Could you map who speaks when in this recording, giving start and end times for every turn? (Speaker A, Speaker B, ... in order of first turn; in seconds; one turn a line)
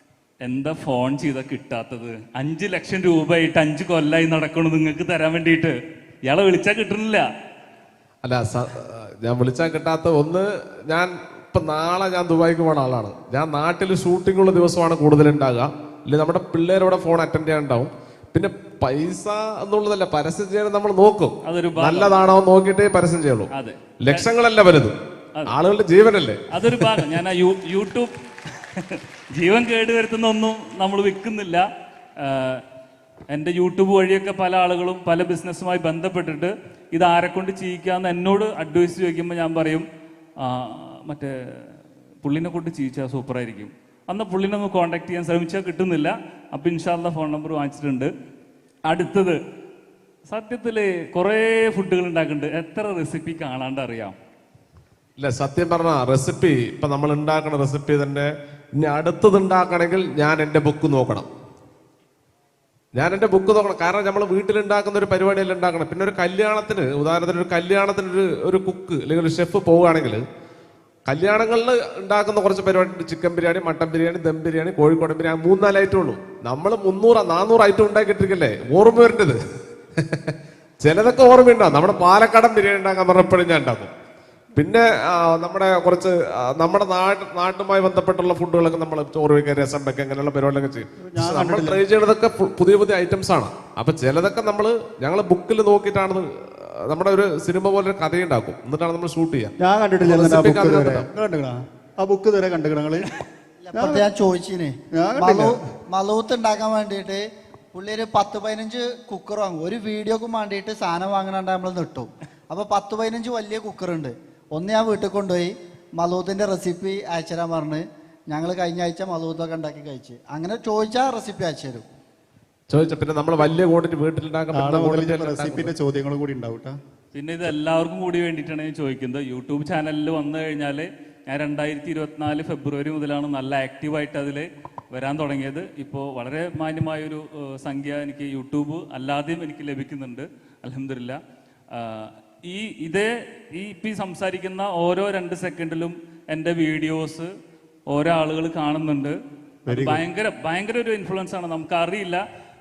Speaker A: 0.4-5.7
Speaker A: 6.2-7.2
Speaker B: 8.2-23.5
Speaker A: 21.4-22.1
Speaker A: 23.5-24.2
Speaker B: 24.0-24.9
Speaker B: 25.5-27.1
Speaker A: 26.5-28.1
Speaker A: 28.8-31.6
Speaker A: 32.2-32.6
Speaker A: 33.3-39.8
Speaker A: 40.4-41.3
Speaker A: 42.2-48.1
Speaker A: 48.9-49.4
Speaker A: 50.3-54.1
Speaker B: 55.2-61.3
Speaker B: 62.9-70.2
Speaker B: 71.0-79.4
Speaker B: 80.0-83.9
Speaker B: 84.5-101.0
Speaker C: 91.1-91.8
Speaker C: 99.6-103.1
Speaker D: 103.6-121.8
Speaker C: 103.7-104.0
Speaker C: 104.9-105.6
Speaker B: 122.7-125.7
Speaker C: 124.5-126.8
Speaker A: 127.1-141.2
Speaker A: 141.7-147.3
Speaker A: 147.9-149.2
Speaker C: 149.7-150.0
Speaker A: 149.7-152.2